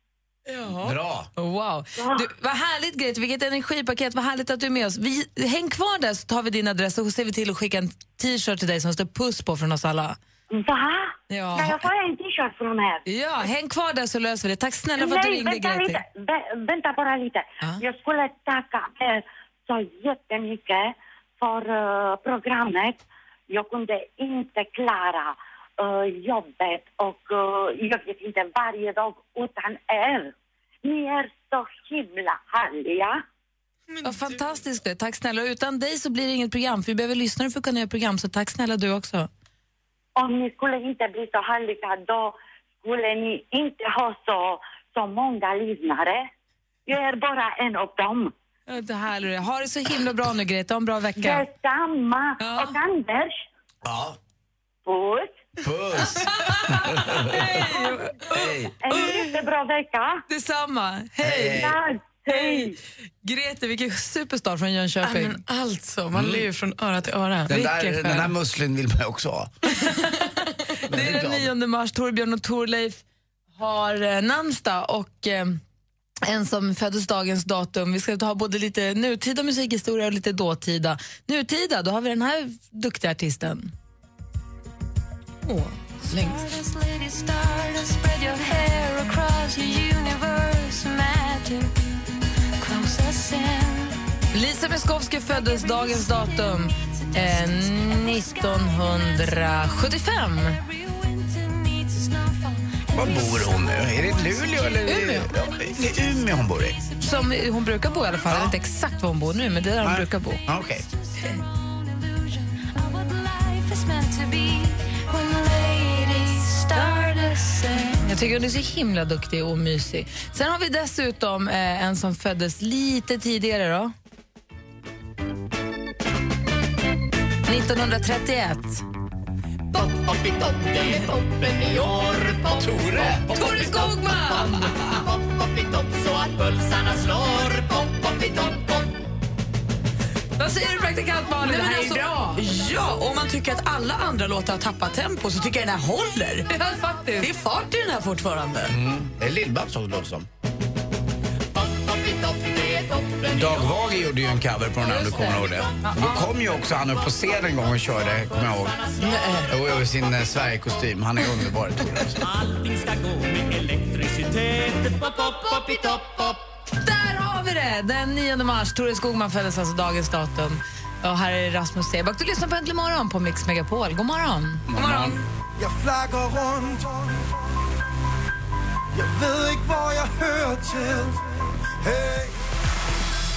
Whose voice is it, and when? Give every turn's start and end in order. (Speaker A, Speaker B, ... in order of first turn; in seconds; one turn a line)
Speaker A: 0.5-1.0
Speaker B: 0.8-1.3
Speaker C: 1.4-10.2
Speaker D: 2.0-2.3
Speaker D: 10.5-13.0
Speaker C: 11.3-11.9
Speaker C: 13.1-16.0
Speaker D: 15.0-23.0
Speaker D: 23.5-33.2
Speaker A: 33.9-34.4
Speaker C: 34.0-39.3
Speaker D: 40.2-46.3
Speaker D: 46.9-48.3
Speaker C: 48.7-51.5
Speaker D: 51.2-53.4
Speaker C: 52.4-52.8
Speaker B: 53.8-54.2
Speaker D: 54.9-55.4
Speaker B: 55.6-57.5
Speaker C: 56.5-58.4
Speaker B: 58.3-58.8
Speaker D: 58.8-60.2
Speaker A: 58.9-59.2
Speaker C: 60.3-61.7
Speaker B: 61.2-61.8
Speaker D: 61.5-62.8
Speaker C: 62.3-62.7
Speaker C: 63.2-65.4
Speaker A: 65.0-68.3
Speaker B: 66.1-66.5
Speaker B: 67.5-69.5
Speaker C: 69.8-70.2
Speaker C: 70.8-73.0
Speaker B: 70.9-71.5
Speaker C: 73.6-75.6
Speaker C: 76.2-83.7
Speaker A: 85.5-86.6
Speaker C: 94.3-100.6
Speaker B: 102.9-106.8
Speaker C: 104.8-105.3
Speaker C: 107.0-110.4
Speaker B: 108.3-108.5
Speaker B: 109.8-110.9
Speaker C: 117.9-123.9
Speaker C: 127.5-128.8
Speaker E: 129.7-132.7
Speaker B: 132.5-133.9
Speaker C: 133.3-134.9
Speaker E: 134.9-138.9
Speaker C: 140.4-142.4
Speaker A: 141.4-146.5
Speaker C: 146.5-147.3
Speaker A: 147.2-148.8
Speaker B: 148.7-150.3
Speaker E: 151.6-153.6
Speaker B: 153.3-158.9
Speaker C: 154.8-156.1
Speaker A: 159.0-159.5
Speaker B: 159.5-162.2
Speaker E: 162.2-166.4
Speaker C: 166.7-174.7
Speaker B: 174.7-175.2
Speaker A: 174.7-175.3
Speaker F: 175.6-177.4
Speaker F: 178.9-181.2
Speaker F: 181.8-182.3